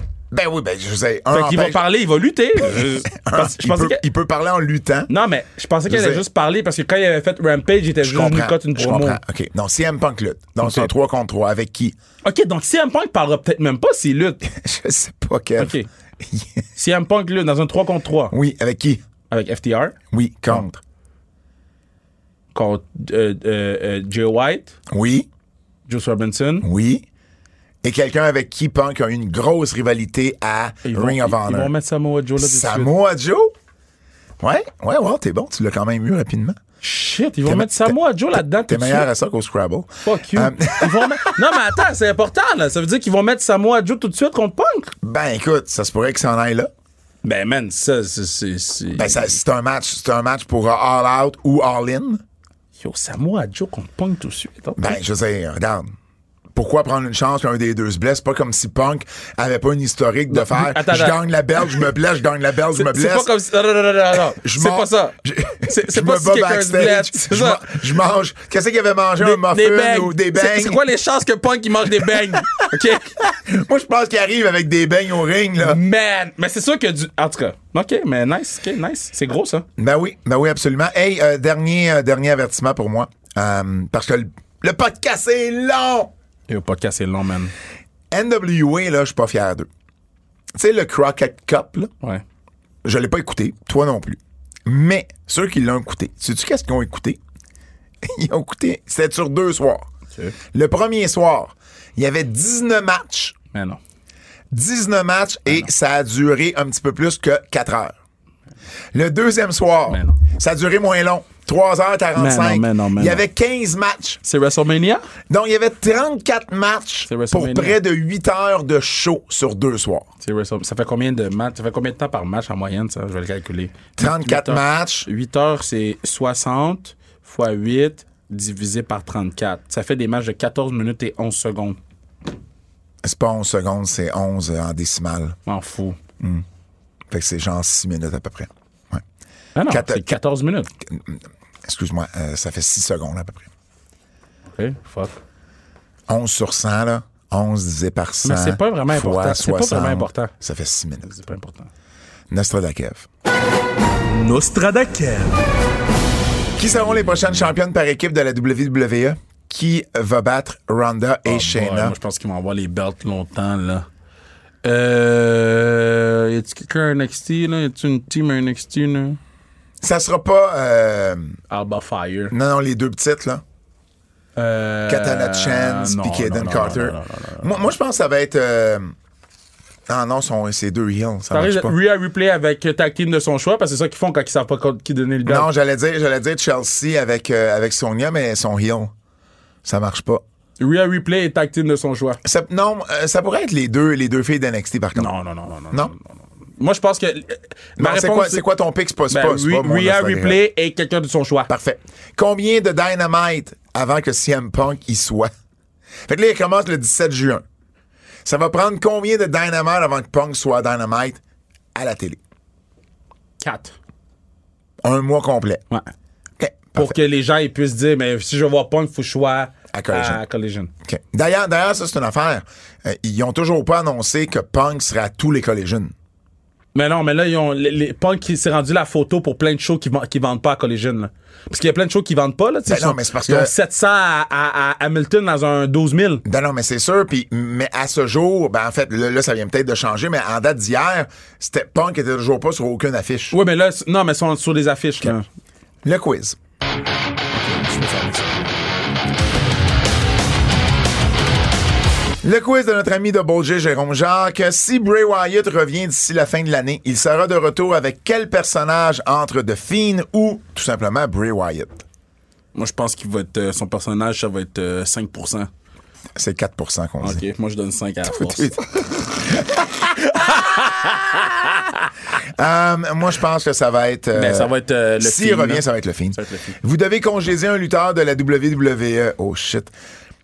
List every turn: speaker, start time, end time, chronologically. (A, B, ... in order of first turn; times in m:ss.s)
0:00.3-0:01.8 A
0:01.3-0:04.0 B
0:02.7-0:05.1 A
0:05.1-0:09.2 B
0:05.9-0:06.2 A
0:08.0-0:12.0 A
0:10.6-0:10.9 B
0:12.2-0:14.4 B
0:14.4-0:16.6 A
0:15.6-0:15.9 B
0:16.8-0:18.4 B
0:18.3-0:19.0 A
0:19.3-0:20.0 B
0:20.1-0:20.8 A
0:22.5-0:24.7 B
0:24.9-0:25.3 A
0:25.9-0:26.7 B
0:26.6-0:27.0 A
0:27.8-0:31.7 A
0:30.8-0:32.9 B
0:32.4-0:33.5 A
0:34.4-0:36.6 A
0:36.8-0:39.1 B
0:37.5-0:38.0 A
0:38.7-0:41.3 A
0:40.0-0:44.9 B
0:45.0-0:46.7 A
0:47.2-0:49.4 B
0:49.0-0:52.2 A
0:52.8-0:55.0 B
0:54.8-0:55.9 A
0:56.5-1:03.3 A
1:00.3-1:01.9 B
1:02.8-1:07.8 B
1:04.4-1:10.8 A
1:09.2-1:13.2 B
1:12.0-1:12.6 A
1:13.2-1:15.8 A
1:15.6-1:19.7 B
1:19.8-1:26.1 A
1:26.5-1:27.5 B
1:28.1-1:29.7 A
1:30.6-1:31.9 A
1:32.8-1:37.2 A
1:38.0-1:39.9 A
1:40.5-1:43.4 A
1:43.5-1:43.8 B
1:44.5-1:47.9 A
1:48.9-1:54.2 A
1:49.9-1:50.2 B
1:52.2-1:53.2 B
1:54.2-1:55.0 B
1:55.3-2:00.1 A
1:57.1-1:57.8 B
2:00.2-2:11.8 B
2:04.0-2:05.1 A
2:13.0-2:15.4 A
2:15.5-2:16.0 B
2:17.1-2:19.0 A
2:19.6-2:20.7 B
2:19.7-2:20.2 A
2:20.9-2:23.5 A
2:24.5-2:25.2 B
2:26.1-2:31.1 A
2:28.2-2:30.3 B
2:31.0-2:31.7 B
2:32.3-2:33.1 A
2:34.1-2:35.4 B
2:36.6-2:42.0 A
2:36.7-2:37.5 B
2:41.3-2:43.9 B
2:44.6-2:49.2 B
2:49.8-2:51.4 A
2:51.5-2:52.3 B
2:52.3-2:53.4 A
2:54.4-2:57.7 B
2:54.9-2:58.9 A
2:59.9-3:01.8 A
3:01.3-3:05.5 B
3:05.3-3:08.9 A
3:09.6-3:10.2 A
3:10.6-3:12.2 B
3:12.2-3:15.1 A
3:15.0-3:18.5 B
3:17.8-3:20.4 A
3:19.1-3:21.5 B
3:21.5-3:25.3 A
3:26.1-3:27.4 A
3:28.2-3:31.2 A
3:31.8-3:32.2 A
3:33.4-3:33.8 B
3:34.8-3:35.6 A
3:36.4-3:37.0 A
3:36.8-3:40.7 B
3:39.7-3:40.2 A
3:40.8-3:45.9 A
3:46.8-3:56.2 B
3:52.7-3:53.5 A
3:56.2-4:03.4 A
4:03.3-4:05.3 B
4:05.8-4:06.4 A
4:07.3-4:08.4 B
4:12.2-4:21.8 A
4:22.6-4:25.5 B
4:26.2-4:27.2 A
4:27.0-4:28.5 B
4:28.1-4:31.1 A
4:30.2-4:31.8 B
4:32.2-4:39.7 A
4:34.1-4:36.5 B